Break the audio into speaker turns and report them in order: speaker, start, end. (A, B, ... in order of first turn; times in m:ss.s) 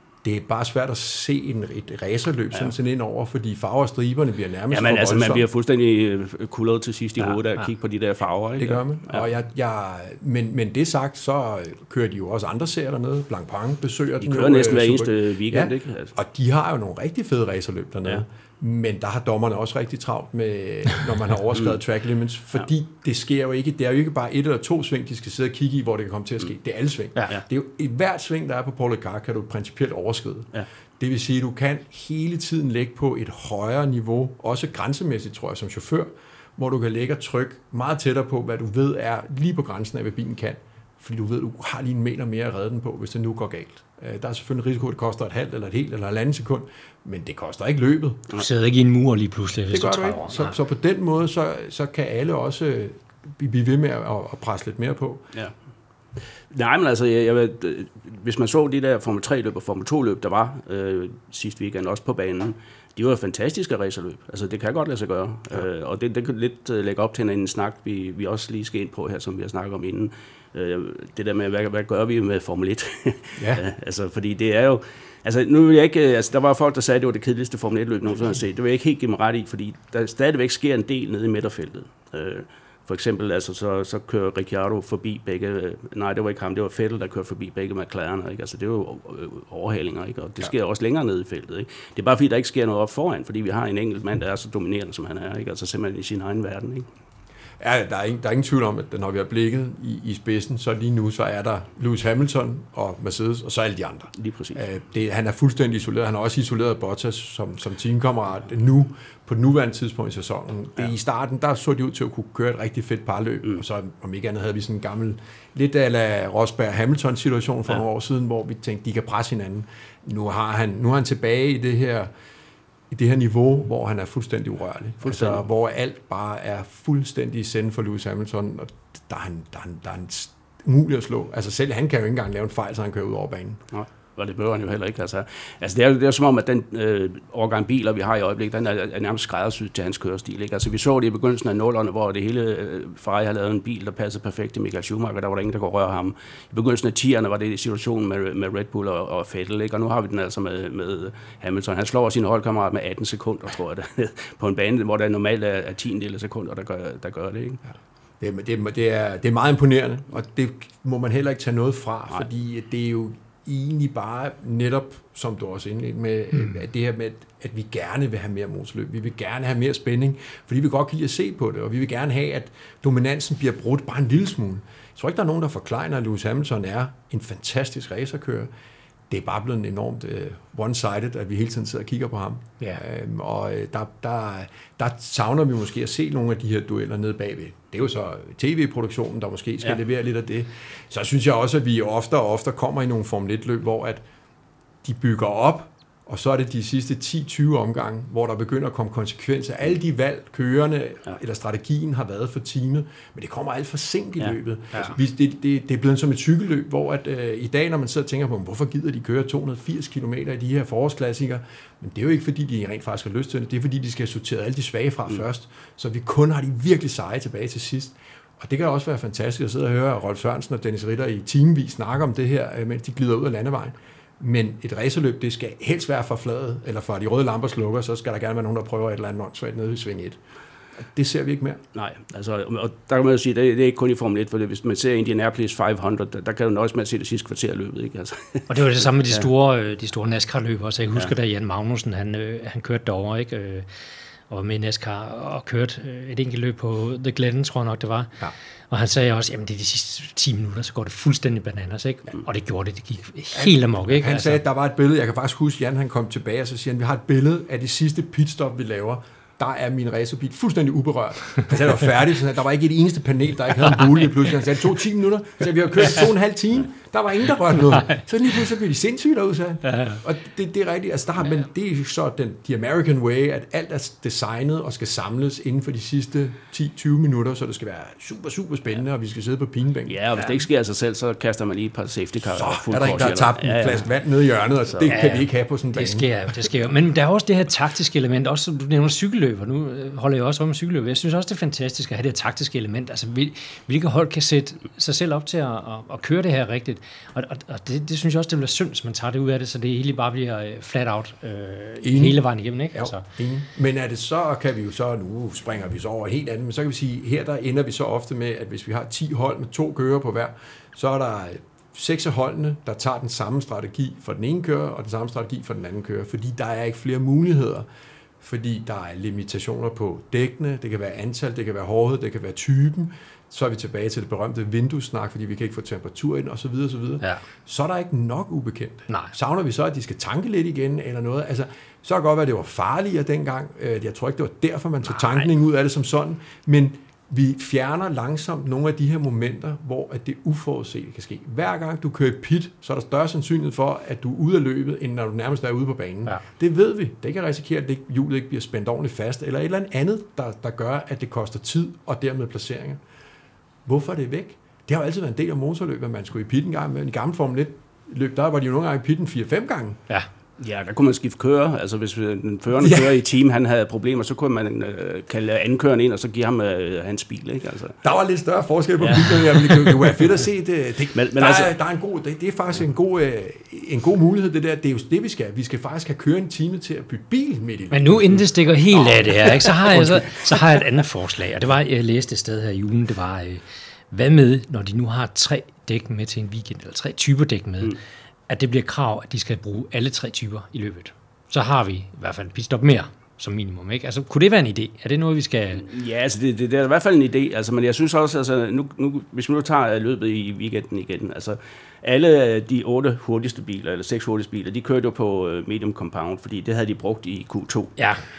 0:00.2-0:05.4 A
0:04.7-0:09.2 B
0:08.6-0:48.2 A
0:14.2-0:16.1 B
0:48.4-0:50.6 C
0:49.7-0:55.3 A
0:56.5-1:36.9 B
1:13.4-1:13.6 A
1:37.6-2:02.1 A
1:44.2-1:44.6 B
2:02.9-2:13.6 A
2:05.0-2:05.4 B
2:13.7-2:37.6 B
2:38.2-2:58.5 A
2:59.1-3:14.0 A
3:14.8-3:50.2 A
3:50.8-3:51.6 A
3:51.7-3:58.5 B
3:58.5-4:03.7 C
4:04.3-4:08.2 C
4:08.7-4:14.4 C
4:13.3-4:40.0 A
4:29.7-4:30.0 C
4:39.9-4:43.9 B
4:42.3-4:46.1 A
4:44.7-4:45.0 B
4:44.9-5:03.0 C
5:01.8-5:17.7 A
5:18.2-5:52.8 A
5:28.9-5:29.1 C
5:53.7-5:59.8 A
6:00.4-6:07.8 B
6:02.6-6:03.0 A
6:07.8-6:18.2 A
6:08.8-6:10.0 B
6:10.9-6:11.5 B
6:17.7-6:27.8 C
6:19.5-6:19.9 A
6:28.3-6:35.7 C
6:35.6-6:47.8 B
6:47.8-6:48.0 C